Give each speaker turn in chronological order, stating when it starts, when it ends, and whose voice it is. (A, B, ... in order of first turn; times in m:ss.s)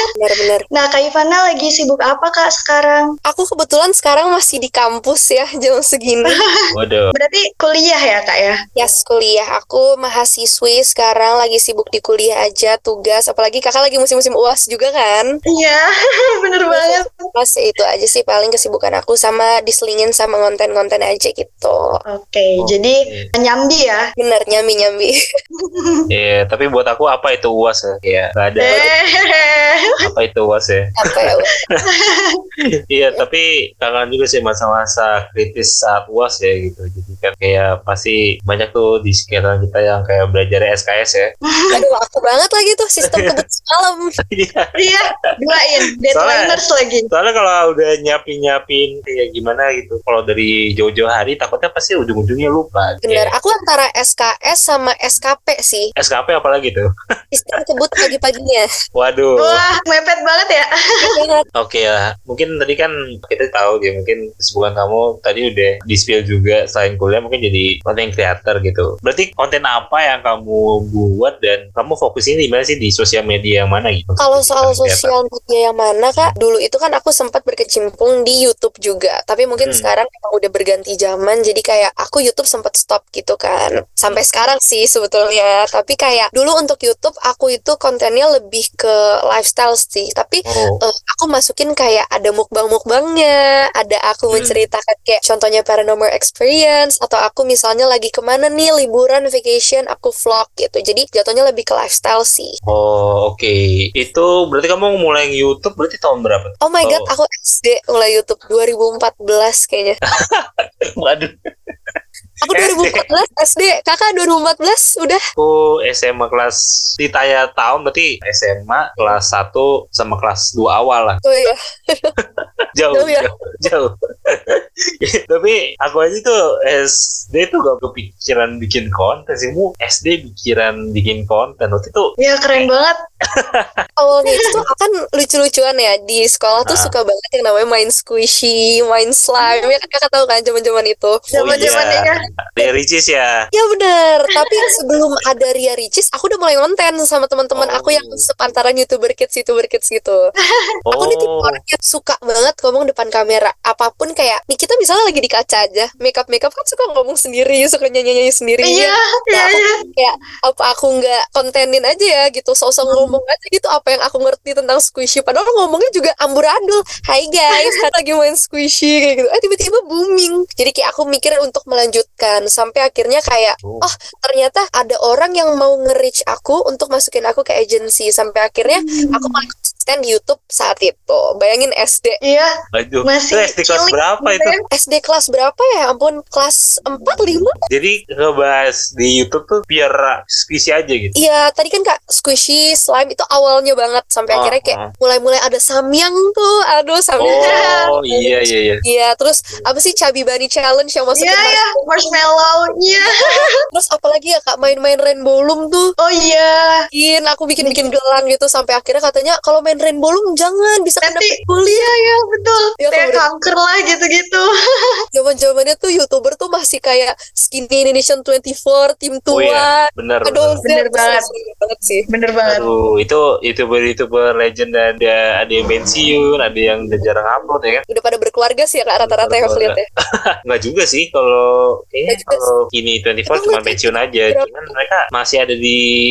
0:00.2-0:00.7 A
0:00.7-0:03.2 B
0:03.3-0:06.4 A
0:06.3-0:08.6 B
0:06.7-0:07.1 C
0:08.8-0:15.3 A
0:15.5-0:17.2 B
0:16.7-0:22.0 A
0:22.1-0:24.1 B
0:22.6-0:23.3 C
0:24.2-0:25.1 A
0:25.6-0:26.0 B
0:26.1-0:28.9 C
0:28.6-0:30.0 B
0:30.0-0:31.9 C
0:31.0-0:31.5 A
0:31.8-0:32.4 B
0:32.9-0:41.3 C
0:41.4-0:41.8 B
0:41.7-0:44.1 A
0:43.0-0:43.4 C
0:44.3-0:44.9 C
0:44.8-0:47.1 B
0:46.1-0:46.6 C
0:47.1-0:53.3 C
0:53.1-0:55.9 A
0:56.0-0:56.9 C
0:57.3-0:58.7 A
0:59.0-0:59.6 C
0:59.4-1:01.1 B
1:01.0-1:01.4 A
1:01.6-1:15.1 C
1:14.2-1:42.5 A
1:19.6-1:19.9 C
1:30.5-1:30.8 C
1:34.3-1:34.6 C
1:42.7-1:47.1 C
1:46.6-1:50.0 A
1:50.1-1:52.0 C
1:52.4-1:55.2 A
1:52.5-1:53.0 C
1:55.4-2:01.2 C
2:01.2-2:02.1 A
2:02.2-2:12.7 C
2:02.9-2:03.3 A
2:12.2-2:13.0 B
2:13.3-2:13.8 C
2:14.0-2:22.0 A
2:16.6-2:16.9 C
2:19.4-2:19.8 B
2:21.3-2:22.2 B
2:21.3-2:23.3 C
2:23.5-2:30.2 A
2:27.6-2:28.3 C
2:30.9-2:31.6 C
2:31.0-3:02.2 A
2:38.6-2:39.8 B
2:42.9-2:43.2 B
2:53.6-2:53.9 C
2:58.7-2:59.4 B
3:02.2-3:02.5 B
3:02.7-3:04.5 C
3:03.0-3:04.6 B
3:04.7-3:07.6 A
3:07.7-3:11.2 C
3:11.2-3:21.8 A
3:14.3-3:14.9 C
3:17.2-3:18.8 C
3:17.4-3:17.9 B
3:21.2-3:23.5 B
3:23.1-3:25.9 A
3:26.0-3:26.8 B
3:26.9-3:31.9 A
3:31.0-3:35.0 B
3:32.8-3:33.2 A
3:35.1-3:42.1 A
3:39.3-3:40.6 C
3:40.6-3:41.3 B
3:42.1-3:42.7 B
3:42.4-3:47.8 C
3:47.9-3:49.8 A
3:49.0-3:49.8 C
3:50.4-3:55.8 C
3:52.1-3:52.5 A
3:53.3-3:54.7 A